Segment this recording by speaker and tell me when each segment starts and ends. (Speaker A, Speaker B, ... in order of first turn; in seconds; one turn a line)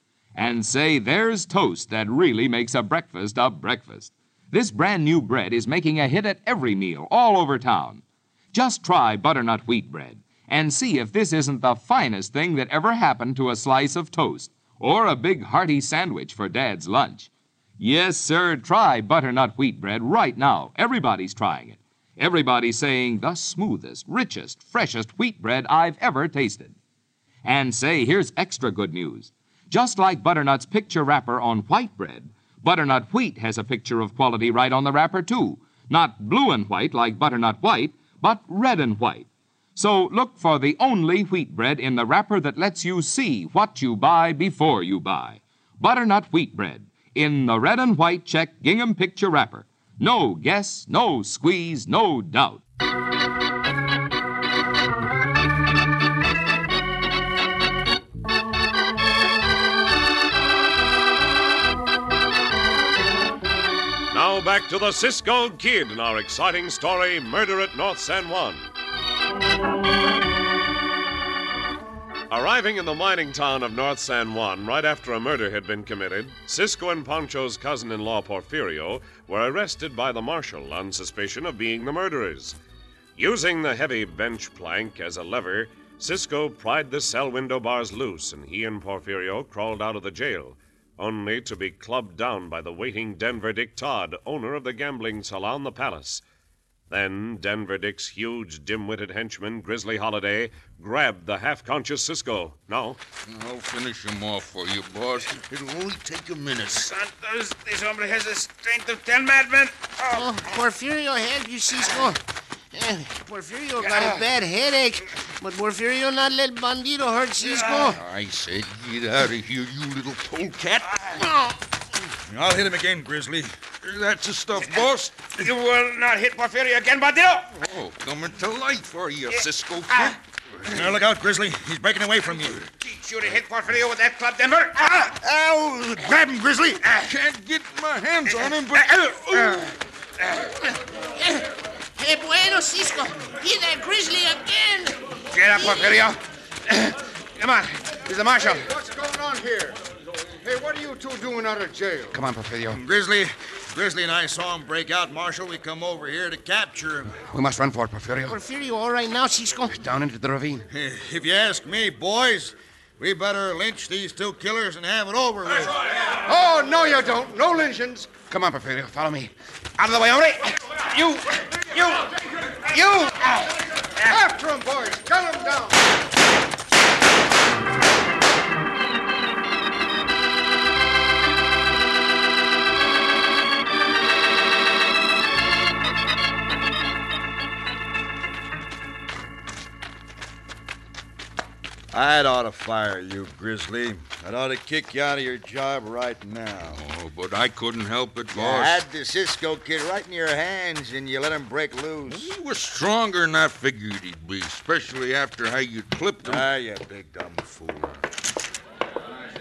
Speaker A: 0.4-26.8
Speaker A: 27.4-52.6
Speaker B: 64.1-68.7
Speaker B: 72.3-82.6
Speaker B: 83.2-96.2
Speaker B: 96.9-103.0
Speaker C: 103.3-106.9
Speaker D: 106.8-110.5
Speaker E: 110.1-112.2
Speaker E: 112.7-118.0
Speaker D: 113.8-114.2
Speaker D: 117.5-118.0
Speaker C: 117.9-121.0
Speaker F: 122.3-123.5
Speaker C: 123.8-125.3
Speaker D: 125.4-127.5
Speaker C: 127.5-130.7
Speaker D: 129.3-130.2
Speaker F: 130.7-132.7
Speaker D: 132.7-135.2
Speaker F: 135.2-136.6
Speaker D: 136.8-137.1
Speaker C: 136.9-139.7
Speaker D: 138.3-140.6
Speaker E: 141.2-146.0
Speaker D: 145.3-148.7
Speaker G: 148.4-149.8
Speaker G: 150.4-152.2
Speaker D: 152.1-152.8
Speaker F: 152.7-157.2
Speaker D: 157.3-158.4
Speaker E: 158.3-159.8
Speaker D: 159.7-160.7
Speaker F: 160.7-165.9
Speaker G: 166.2-168.2
Speaker D: 168.2-174.2
Speaker G: 174.0-175.8
Speaker F: 191.9-196.8
Speaker C: 196.7-198.8
Speaker F: 198.3-202.3
Speaker C: 202.1-206.5
Speaker F: 206.2-207.6
Speaker C: 207.6-208.0